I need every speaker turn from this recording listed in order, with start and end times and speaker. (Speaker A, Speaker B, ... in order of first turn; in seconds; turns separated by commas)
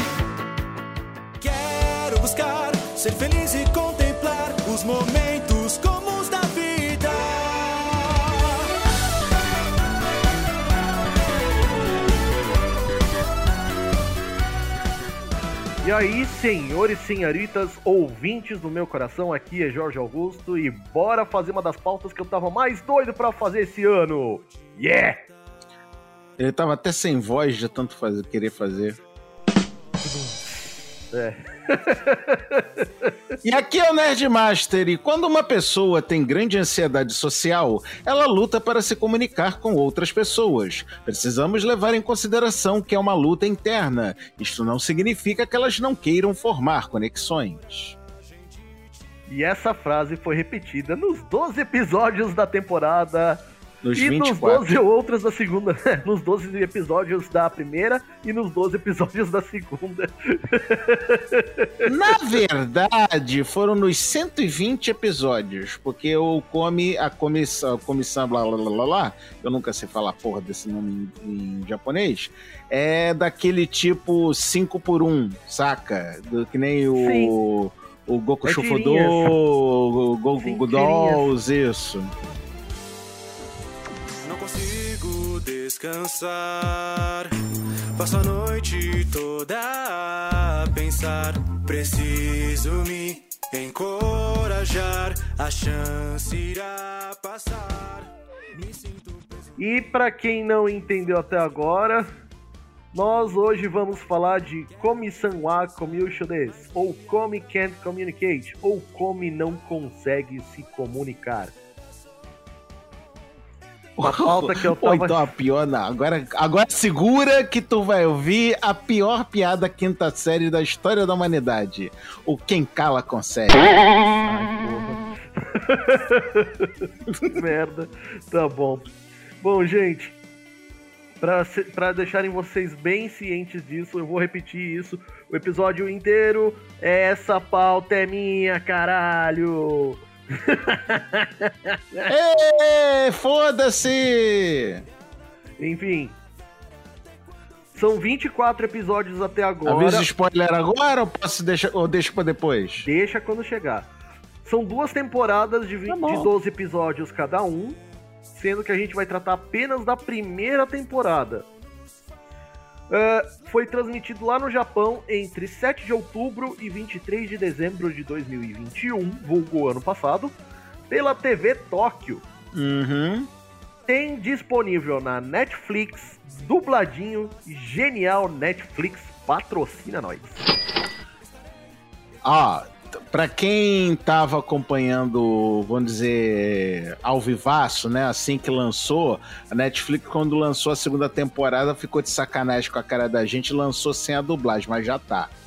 Speaker A: 1.4-8.7, Speaker B: 15.8-25.2, Speaker C: 26.4-29.0, Speaker B: 30.0-33.1, Speaker C: 33.4-48.0, Speaker B: 49.3-53.4, Speaker C: 53.8-54.8, Speaker B: 54.0-61.9, Speaker C: 61.8-82.1, Speaker B: 77.0-77.3, Speaker B: 78.4-79.3, Speaker B: 80.4-81.3, Speaker A: 84.2-87.3, Speaker A: 88.0-99.5, Speaker B: 99.6-102.1, Speaker B: 102.9-111.5, Speaker C: 114.0-123.9, Speaker B: 114.0-115.3, Speaker B: 124.2-126.7, Speaker B: 127.3-128.9, Speaker B: 129.4-130.2, Speaker B: 131.2-142.1, Speaker C: 142.1-144.9, Speaker B: 145.6-146.2, Speaker B: 147.7-150.1, Speaker C: 149.7-152.9, Speaker B: 152.8-153.9, Speaker B: 154.4-157.8, Speaker C: 155.9-156.3, Speaker B: 158.3-161.5, Speaker B: 162.9-170.3, Speaker B: 170.9-172.2, Speaker C: 172.5-173.3, Speaker B: 173.9-180.5, Speaker C: 182.2-195.3